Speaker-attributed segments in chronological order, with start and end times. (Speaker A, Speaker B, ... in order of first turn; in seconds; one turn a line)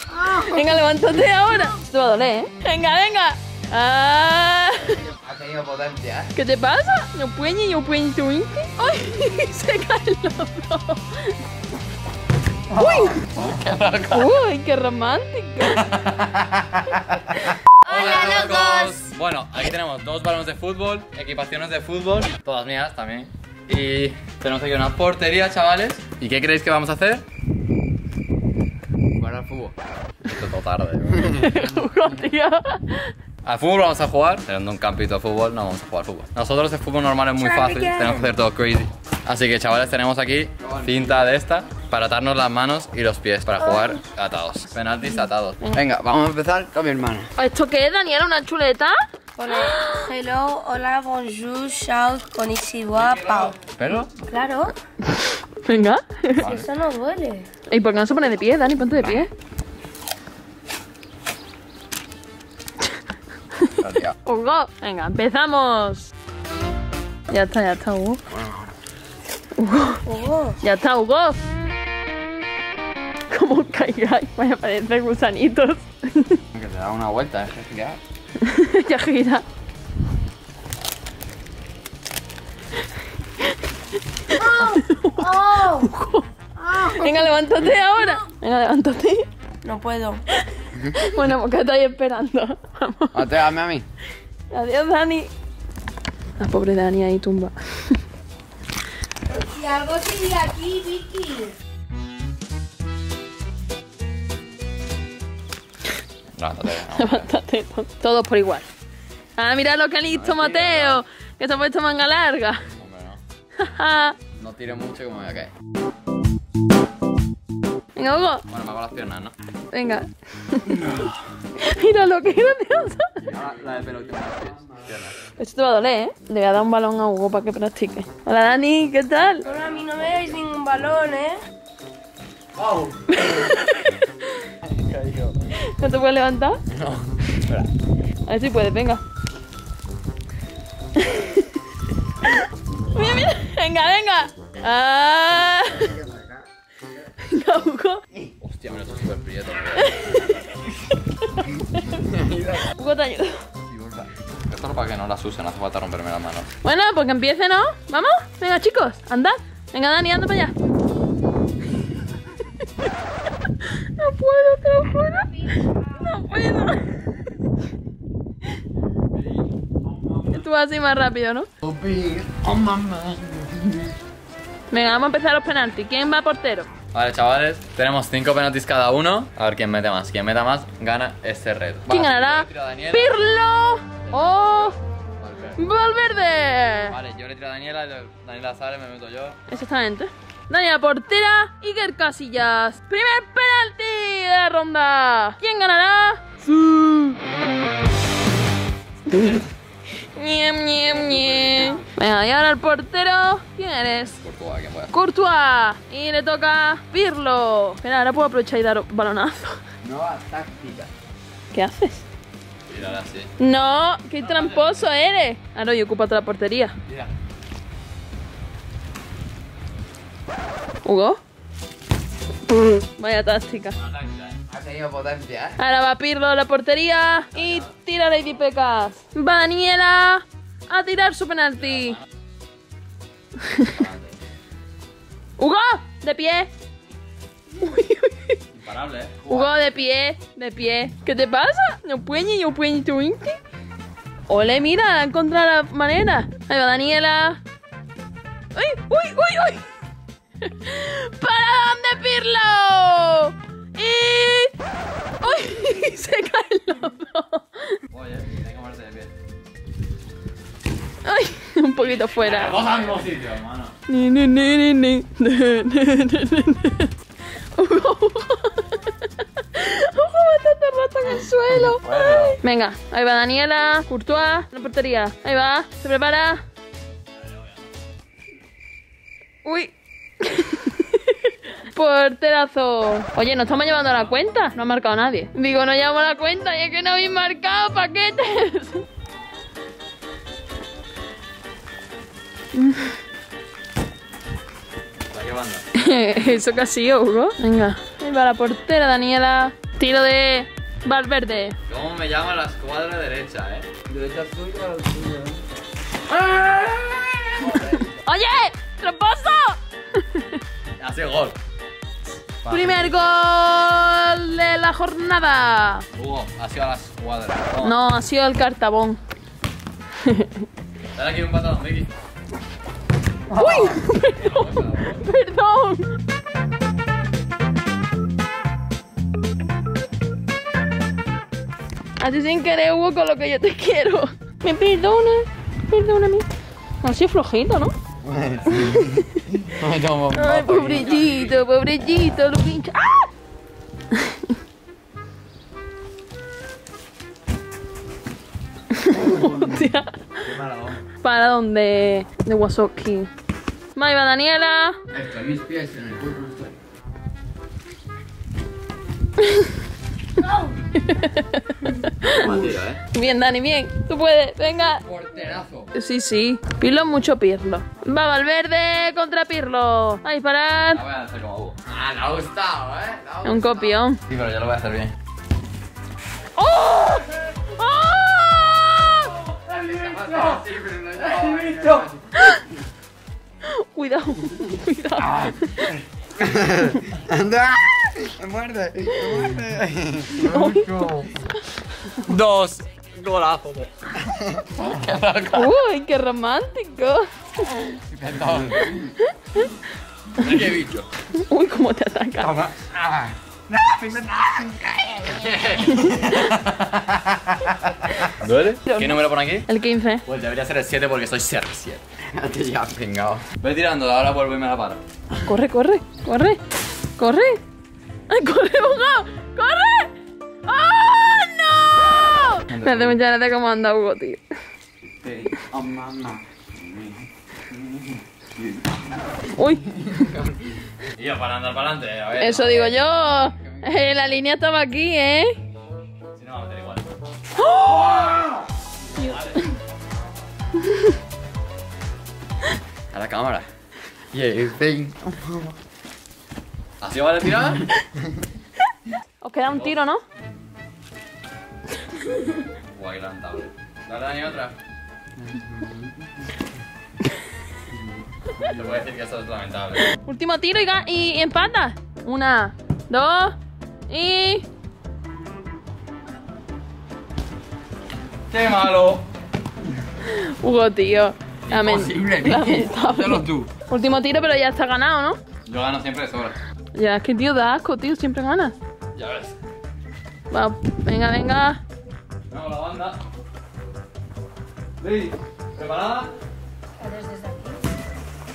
Speaker A: 0.2-0.7
Speaker B: 0.2-5.1
Speaker C: 5.2-6.3
Speaker B: 6.3-11.4
Speaker B: 12.7-13.2
Speaker D: 12.7-14.4
Speaker B: 14.1-15.9
Speaker D: 15.7-27.2
Speaker B: 17.9-18.2
Speaker A: 17.9-19.0
Speaker D: 29.2-29.7
Speaker D: 30.2-31.5
Speaker B: 31.2-33.1
Speaker D: 33.4-45.6
Speaker A: 37.4-38.3
Speaker C: 40.6-41.2
Speaker A: 43.6-44.0
Speaker C: 45.7-47.3
Speaker B: 47.4-49.0
Speaker A: 49.4-53.6
Speaker B: 49.5-50.1
Speaker D: 53.0-54.2
Speaker A: 54.2-54.7
Speaker B: 55.1-56.5
Speaker D: 56.4-56.7
Speaker A: 56.4-57.5
Speaker B: 57.7-59.3
Speaker B: 63.6-66.1
Speaker C: 63.8-64.1
Speaker B: 67.3-68.2
Speaker C: 68.3-68.7
Speaker B: 69.6-70.1
Speaker A: 70.1-70.6
Speaker B: 70.6-71.4
Speaker B: 73.3-76.4
Speaker C: 76.6-78.0
Speaker D: 76.8-77.2
Speaker B: 78.4-79.4
Speaker B: 84.3-89.3
Speaker A: 84.3-85.9
Speaker A: 86.6-87.3
Speaker A: 89.6-90.2
Speaker B: 90.4-93.4
Speaker C: 93.1-93.8
Speaker B: 94.5-95.3
Speaker B: 96.4-98.0
Speaker A: 99.3-101.5
Speaker D: 106.4-107.3
Speaker B: 106.8-108.7
Speaker B: 109.4-112.6
Speaker D: 110.1-111.0
Speaker D: 112.8-113.2
Speaker B: 113.6-114.2
Speaker D: 114.4-115.5
Speaker B: 118.0-118.5
Speaker D: 118.5-119.3
Speaker B: 119.7-121.0
Speaker B: 121.6-123.2
Speaker C: 123.2-125.0
Speaker D: 123.2-125.2
Speaker B: 125.3-129.5
Speaker A: 129.4-131.4
Speaker C: 129.6-130.2
Speaker B: 133.1-134.5
Speaker D: 134.9-135.3
Speaker B: 135.6-136.6
Speaker C: 136.7-137.2
Speaker B: 138.3-139.0
Speaker B: 141.0-141.5
Speaker B: 142.2-146.0
Speaker C: 145.8-146.4
Speaker B: 147.2-148.0
Speaker D: 148.4-150.2
Speaker B: 149.7-152.1
Speaker C: 151.9-152.7
Speaker B: 152.7-153.4
Speaker C: 153.7-154.1
Speaker D: 154.5-156.5
Speaker B: 156.6-160.5
Speaker B: 162.6-162.9
Speaker B: 163.5-167.3
Speaker C: 170.0-170.2
Speaker B: 170.3-171.5
Speaker C: 171.6-173.9
Speaker B: 174.7-176.7
Speaker D: 176.9-183.1
Speaker B: 181.9-184.8
Speaker D: 184.1-185.6
Speaker B: 185.6-187.0
Speaker D: 186.9-189.4
Speaker B: 189.5-197.2
Speaker B: 199.1-199.4
Speaker B: 200.0-204.2
Speaker C: 201.1-201.8
Speaker D: 204.1-204.9
Speaker B: 204.9-209.6
Speaker C: 209.8-210.9
Speaker B: 211.5-212.0
Speaker D: 212.7-213.3
Speaker B: 213.4-216.8
Speaker D: 214.2-214.9
Speaker B: 220.8-221.2
Speaker B: 222.7-223.8
Speaker D: 223.8-224.4
Speaker C: 224.5-225.6
Speaker B: 225.6-232.0
Speaker D: 227.3-227.7
Speaker D: 231.6-232.0
Speaker B: 233.4-233.8
Speaker D: 233.7-234.2
Speaker B: 235.4-236.5
Speaker B: 237.6-238.4
Speaker D: 238.5-239.4
Speaker B: 239.3-243.4
Speaker B: 244.3-247.4
Speaker B: 248.5-249.7
Speaker B: 250.4-254.5
Speaker B: 255.2-257.8
Speaker D: 257.9-259.1
Speaker B: 261.0-262.9
Speaker D: 261.8-263.7
Speaker B: 263.9-266.9
Speaker B: 267.5-276.4
Speaker D: 271.7-272.4
Speaker B: 279.4-288.9
Speaker B: 292.6-292.9
Speaker D: 295.1-295.6
Speaker B: 295.7-301.6
Speaker D: 301.7-303.8
Speaker C: 303.9-305.4
Speaker D: 306.2-306.5
Speaker C: 306.4-307.6
Speaker D: 307.4-308.0
Speaker B: 307.9-310.4
Speaker D: 310.8-311.4
Speaker D: 312.4-312.9
Speaker B: 312.4-315.9
Speaker D: 315.9-317.8
Speaker B: 317.6-319.0
Speaker B: 320.0-320.4
Speaker D: 320.9-321.9
Speaker B: 323.3-325.9
Speaker C: 323.3-323.7
Speaker D: 323.7-325.1
Speaker B: 332.0-336.3
Speaker B: 336.8-337.7
Speaker C: 338.0-340.9
Speaker B: 338.7-339.3
Speaker B: 340.1-343.1
Speaker D: 340.5-341.4
Speaker B: 343.9-344.3
Speaker B: 348.7-349.9
Speaker C: 349.0-349.5
Speaker D: 350.2-350.8
Speaker B: 351.0-353.1
Speaker B: 353.8-354.8
Speaker C: 354.9-356.5
Speaker B: 359.2-359.5
Speaker B: 360.7-364.8
Speaker D: 362.0-362.8
Speaker C: 362.1-362.6
Speaker C: 364.9-365.6
Speaker B: 365.7-370.8
Speaker D: 370.7-374.9
Speaker B: 373.2-374.0
Speaker B: 376.4-379.2
Speaker D: 379.5-381.9
Speaker C: 379.8-381.9
Speaker B: 382.1-382.5
Speaker B: 383.4-385.7
Speaker C: 385.1-385.3
Speaker C: 386.1-391.1
Speaker B: 390.2-390.9
Speaker D: 392.0-393.9
Speaker C: 394.1-394.5
Speaker D: 394.6-395.5
Speaker B: 395.3-397.7
Speaker C: 397.9-398.8
Speaker D: 398.0-398.7
Speaker B: 398.6-399.5
Speaker D: 400.2-400.9
Speaker B: 401.1-402.4
Speaker C: 402.5-405.8
Speaker D: 403.7-404.1
Speaker D: 405.1-407.1
Speaker B: 405.7-406.2
Speaker D: 408.1-409.5
Speaker B: 408.7-410.0
Speaker D: 410.1-414.8
Speaker C: 412.1-413.2
Speaker B: 415.2-416.4
Speaker B: 417.0-417.4
Speaker B: 418.1-419.9
Speaker B: 420.4-424.2
Speaker D: 422.5-423.0
Speaker C: 425.0-427.9
Speaker C: 428.4-428.8
Speaker B: 429.3-429.7
Speaker C: 429.7-430.5
Speaker D: 431.0-432.9
Speaker B: 432.2-435.4
Speaker C: 433.3-433.7
Speaker D: 436.1-436.9
Speaker B: 437.4-438.1
Speaker D: 439.0-439.4
Speaker B: 439.0-439.5
Speaker B: 440.6-440.9
Speaker D: 442.9-443.5
Speaker C: 444.1-445.6
Speaker D: 446.8-447.7
Speaker B: 449.2-450.0
Speaker D: 449.5-449.8
Speaker D: 452.7-454.6
Speaker C: 455.3-455.9
Speaker D: 458.4-459.9
Speaker B: 460.0-463.4
Speaker B: 463.9-464.5
Speaker D: 468.3-469.0
Speaker B: 470.1-475.2
Speaker D: 471.5-473.3
Speaker C: 471.8-473.4
Speaker D: 475.5-476.4
Speaker B: 476.7-478.6
Speaker D: 478.9-479.4
Speaker B: 480.3-481.6
Speaker D: 482.3-483.0
Speaker D: 484.8-486.1
Speaker A: 486.8-487.6